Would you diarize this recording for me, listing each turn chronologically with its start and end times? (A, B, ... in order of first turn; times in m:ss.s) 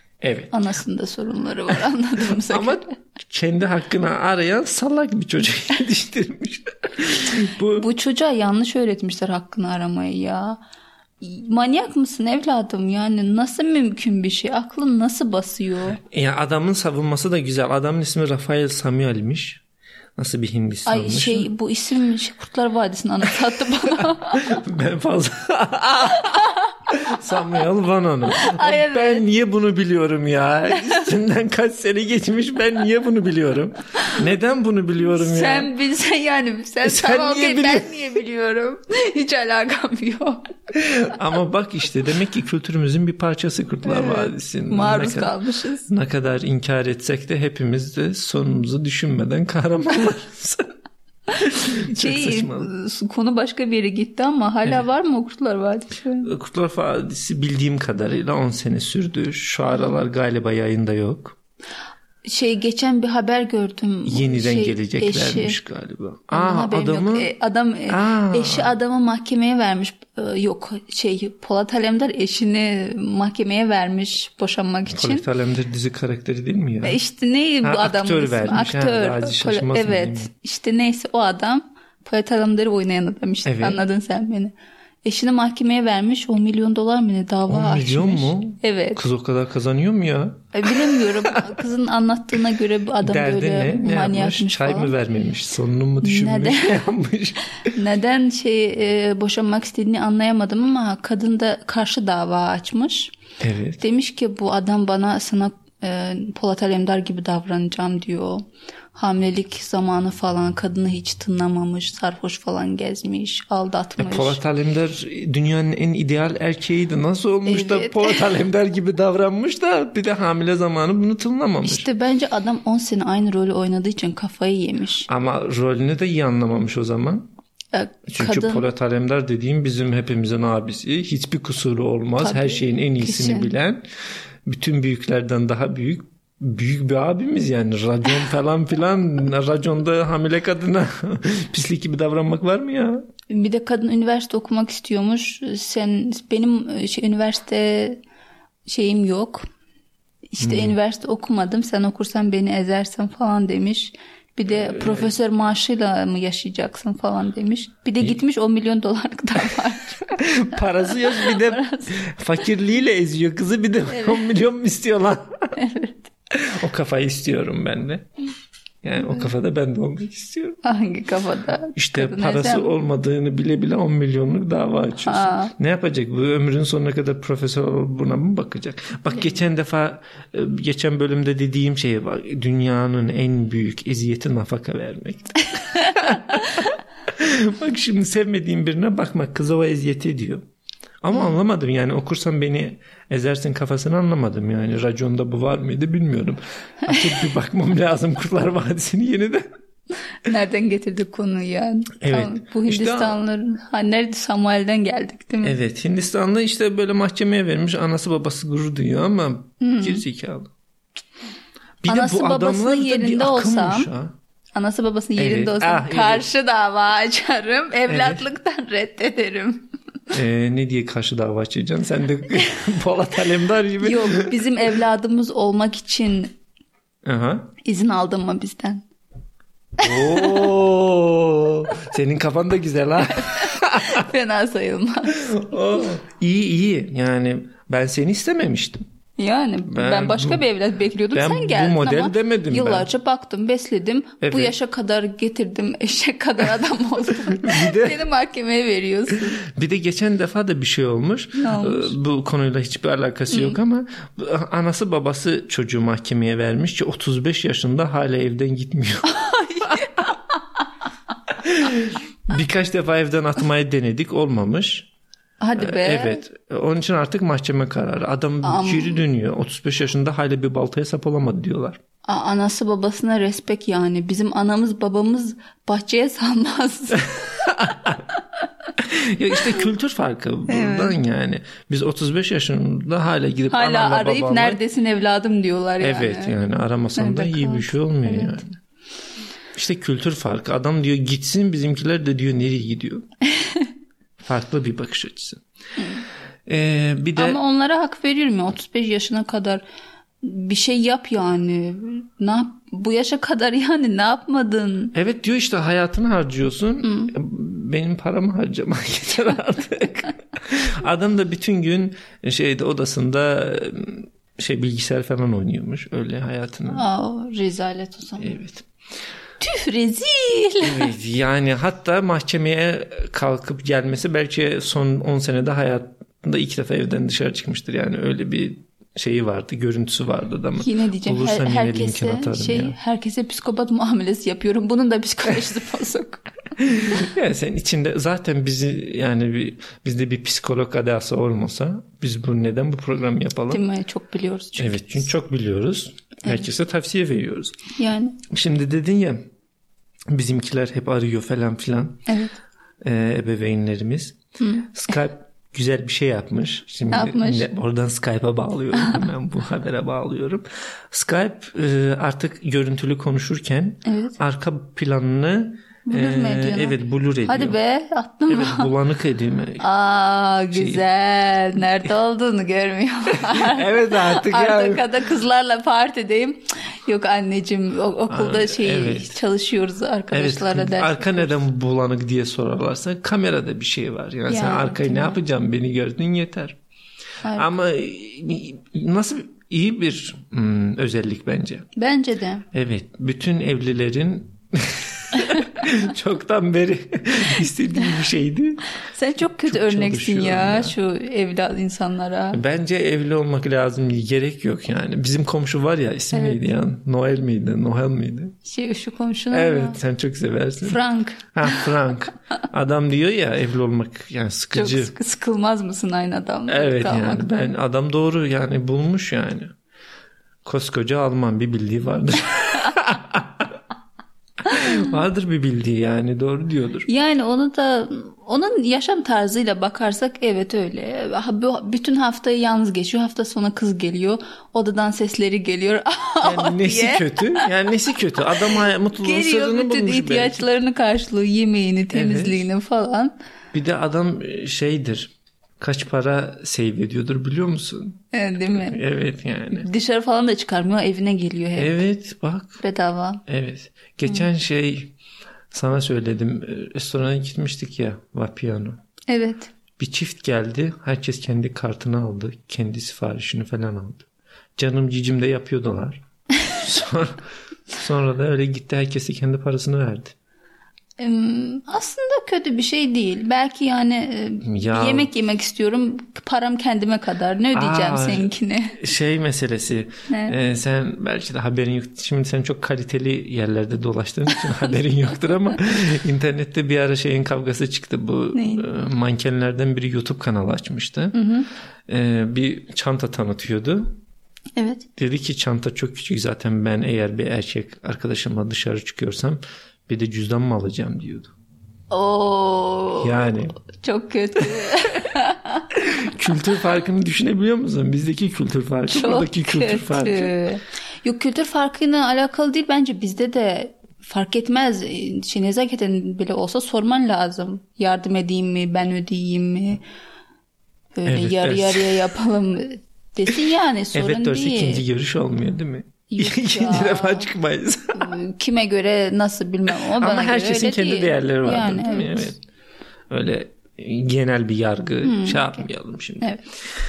0:00.2-0:00.5 A
0:00.5-0:02.9 B
0:02.5-0:07.8 A
0:07.7-0:10.6 B
0:11.2-0:16.0 B
0:16.0-0:19.6 A
0:20.2-0:21.5 A
0:20.8-0:24.4 B
0:24.0-0:35.7 A
0:26.1-0:26.7 B
0:28.3-0:29.2 B
0:30.7-0:31.1 B
0:35.1-0:40.5 B
0:36.8-0:38.1 A
0:40.7-0:45.3 A
0:43.8-0:45.9 B
0:45.9-0:50.7 A
0:51.4-0:52.7 A
0:51.4-0:56.3 B
0:56.2-1:01.4 A
1:02.2-1:05.6 B
1:04.0-1:07.3 A
1:06.3-1:15.2 B
1:07.9-1:08.7 A
1:14.9-1:17.0 A
1:16.8-1:29.0 B
1:17.6-1:20.3 A
1:23.4-1:23.8 A
1:27.5-1:31.6 A
1:30.5-1:34.9 B
1:33.0-1:37.7 A
1:36.0-1:36.8 B
1:37.7-1:43.1 B
1:43.4-1:43.8 A
1:43.8-1:54.4 B
1:54.0-2:01.9 A
1:57.4-1:58.3 B
2:01.6-2:05.1 B
2:05.1-2:07.3 A
2:07.7-2:08.6 B
2:08.1-2:13.8 A
2:12.2-2:13.5 B
2:14.4-2:23.0 A
2:23.3-2:28.0 B
2:28.7-2:29.4 B
2:30.3-2:40.2 B
2:30.4-2:30.7 A
2:34.5-2:35.1 A
2:40.2-2:45.5 A
2:40.8-2:42.0 B
2:43.9-2:44.2 B
2:45.6-2:46.0 B
2:46.3-2:48.1 A
2:48.8-2:50.6 A
2:50.6-2:52.7 B
2:51.7-3:10.4 A
2:55.0-2:55.5 B
2:59.1-2:59.4 B
3:05.7-3:06.6 B
3:11.0-3:19.4 A
3:20.1-3:25.6 B
3:22.0-3:23.2 A
3:25.4-3:30.5 A
3:29.6-3:30.0 B
3:31.8-3:34.1 A
3:31.9-3:33.9 B
3:34.5-3:39.7 B
3:35.2-3:36.2 A
3:37.9-3:38.2 A
3:40.1-3:44.5 A
3:43.8-3:46.3 B
3:47.0-3:47.5 A
3:47.6-3:48.8 B
3:49.8-3:54.0 A
3:49.8-3:50.5 B
3:53.1-3:55.8 B
3:55.1-3:58.8 A
3:59.2-4:09.4 B
3:59.7-4:00.4 A
4:01.1-4:02.9 A
4:04.2-4:04.5 A
4:07.1-4:08.0 A
4:09.1-4:19.9 A
4:11.4-4:11.9 B
4:13.3-4:13.6 B
4:19.0-4:20.2 B
4:21.3-4:24.9 A
4:25.4-4:26.2 B
4:25.6-4:31.8 A
4:28.4-4:29.0 B
4:32.1-4:37.5 B
4:37.4-4:38.0 A
4:38.8-4:44.6 A
4:40.5-4:41.0 B
4:43.5-4:46.4 B
4:45.8-4:48.6 A
4:47.0-4:48.4 B
4:49.5-4:53.0 A
4:53.3-4:53.7 B
4:54.2-4:55.4 A
4:55.8-4:56.0 B
4:56.4-4:57.4 A
4:57.2-4:59.6 B
5:00.2-5:04.9 B
5:04.9-5:16.8 A
5:06.8-5:07.1 B
5:16.7-5:18.4 B
5:18.2-5:18.7 A
5:19.4-5:20.9 B
5:20.6-5:32.8 A
5:30.6-5:36.3 B
5:36.6-5:43.6 A
5:43.5-5:44.9 B
5:44.6-5:47.6 A
5:47.8-5:48.2 B
5:48.3-5:49.2 A
5:50.1-5:52.0 A
5:52.1-5:52.3 B
5:52.8-5:54.2 A
5:54.4-5:54.7 B
5:54.7-6:07.6 A
5:56.9-5:57.5 B
6:03.8-6:04.2 B
6:05.9-6:08.7 B
6:08.3-6:09.6 A
6:09.6-6:21.4 B
6:10.5-6:10.8 A
6:13.2-6:15.0 A
6:18.1-6:19.2 A
6:20.1-6:26.6 A
6:24.3-6:25.2 B
6:27.3-6:31.7 A
6:31.8-6:32.4 B
6:32.5-6:40.7 A
6:38.9-6:42.4 B
6:42.3-6:48.3 A
6:46.1-6:46.4 B
6:48.4-6:49.8 B
6:49.3-6:50.8 A
6:50.6-6:51.7 B
6:51.3-6:54.9 A
6:54.5-6:57.3 B
6:56.5-6:59.5 A
7:00.4-7:03.6 A
7:04.4-7:06.9 A
7:04.5-7:04.8 B
7:06.8-7:17.5 B
7:16.2-7:20.4 A
7:18.5-7:23.1 B
7:21.9-7:22.5 A
7:23.5-7:28.0 A
7:28.1-7:28.8 B
7:28.5-7:29.7 A
7:29.5-7:31.8 B
7:31.6-7:32.6 A
7:32.6-7:33.2 B
7:33.3-7:34.9 A
7:35.5-7:38.8 A
7:39.1-7:39.5 B
7:39.8-7:44.0 A
7:44.6-7:47.2 A
7:47.7-7:50.1 A
7:51.0-7:58.8 B
7:54.4-7:55.1 A
7:57.5-8:11.1 A
8:00.1-8:00.4 B
8:08.3-8:08.7 B
8:11.1-8:11.5 B
8:11.9-8:14.0 A
8:14.6-8:14.8 B
8:15.0-8:21.3 A
8:21.9-8:23.2 B
8:23.0-8:23.6 A
8:23.8-8:25.7 B
8:25.7-8:30.3 A
8:28.9-8:39.8 B
8:41.0-8:44.8 B
8:41.0-8:42.1 A
8:43.9-8:48.2 A
8:46.1-8:47.3 B
8:47.9-8:52.3 B
8:49.7-8:52.4 A
8:53.1-8:56.4 A
8:55.0-8:55.6 B